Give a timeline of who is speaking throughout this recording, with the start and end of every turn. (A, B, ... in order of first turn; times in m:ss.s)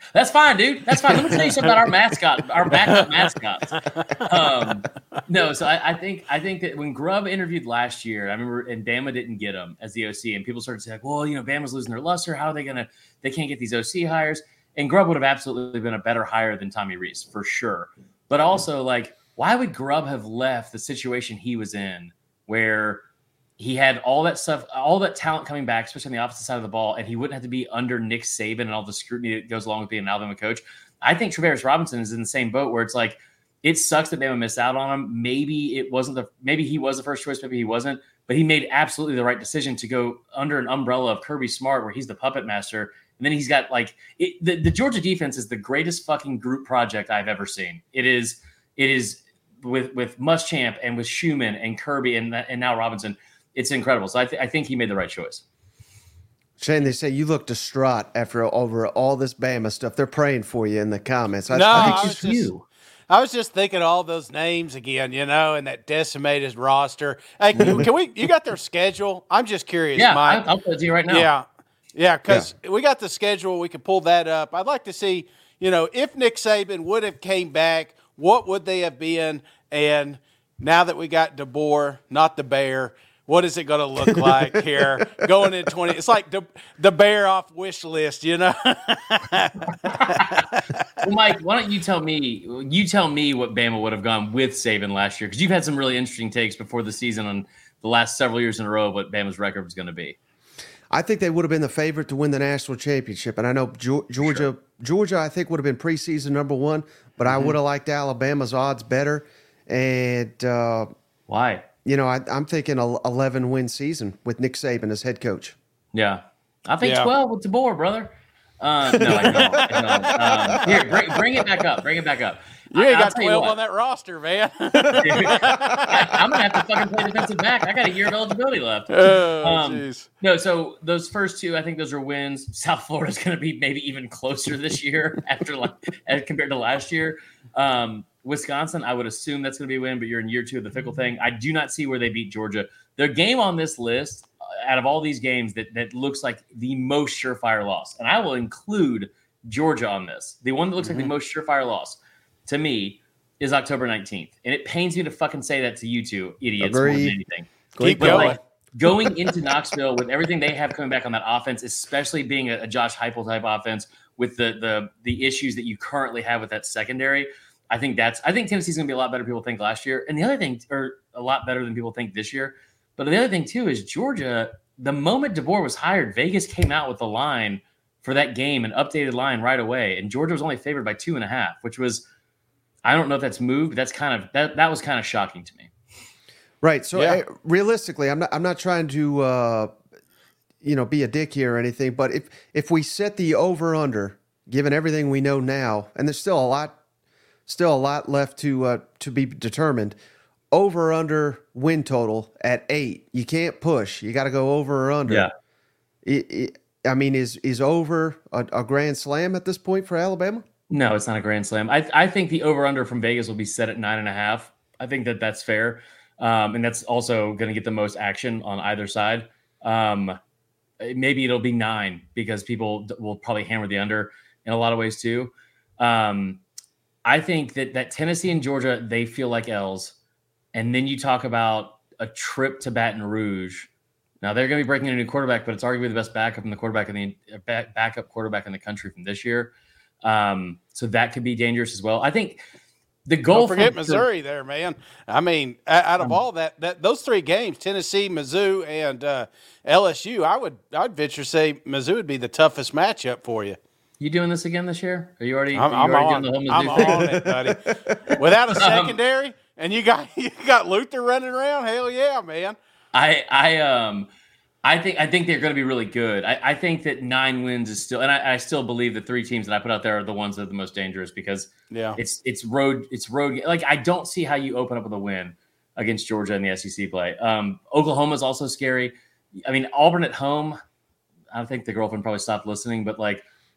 0:00.1-0:23.0 A
0:01.3-0:01.7 B
0:04.0-0:04.3 B
0:23.6-0:55.4 A
0:56.6-1:02.6 C
1:01.5-1:02.5 B
1:01.8-1:02.2 A
1:03.1-1:10.4 B
1:07.6-1:07.8 A
1:07.6-1:07.9 C
1:10.0-1:11.3 A
1:11.1-1:30.6 B
1:24.1-1:24.3 C
1:30.0-1:30.4 A
1:31.0-1:40.2 A
1:40.9-1:50.9 C
1:47.3-1:47.5 B
1:51.3-1:51.7 A
1:51.8-1:55.6 C
1:55.9-2:03.6 A
1:56.8-1:57.1 B
1:58.9-2:01.2 B
2:02.7-2:06.2 B
2:05.0-3:02.0 A
2:08.9-2:10.1 B
2:30.8-2:31.1 B
2:36.6-2:37.2 C
2:37.8-2:39.1 C
2:37.8-2:38.4 B
3:02.8-3:05.7 A
3:06.6-3:09.7 C
3:07.0-3:07.2 B
3:10.6-3:16.8 C
3:17.5-3:20.0 C
3:20.5-3:25.3 C
3:26.0-3:30.4 C
3:30.7-3:40.2 A
3:40.8-3:46.4 A
3:47.1-3:50.0 A
3:50.5-3:53.7 A
3:54.2-3:59.5 A
4:00.0-4:02.4 A
4:03.1-4:04.1 A
4:03.3-4:13.6 B
4:14.0-4:17.1 A
4:15.6-4:22.6 B
4:16.8-4:18.0 C
4:18.1-4:19.0 A
4:22.9-4:24.1 A
4:24.6-4:40.6 A
4:31.7-4:32.0 B
4:41.3-4:43.3 A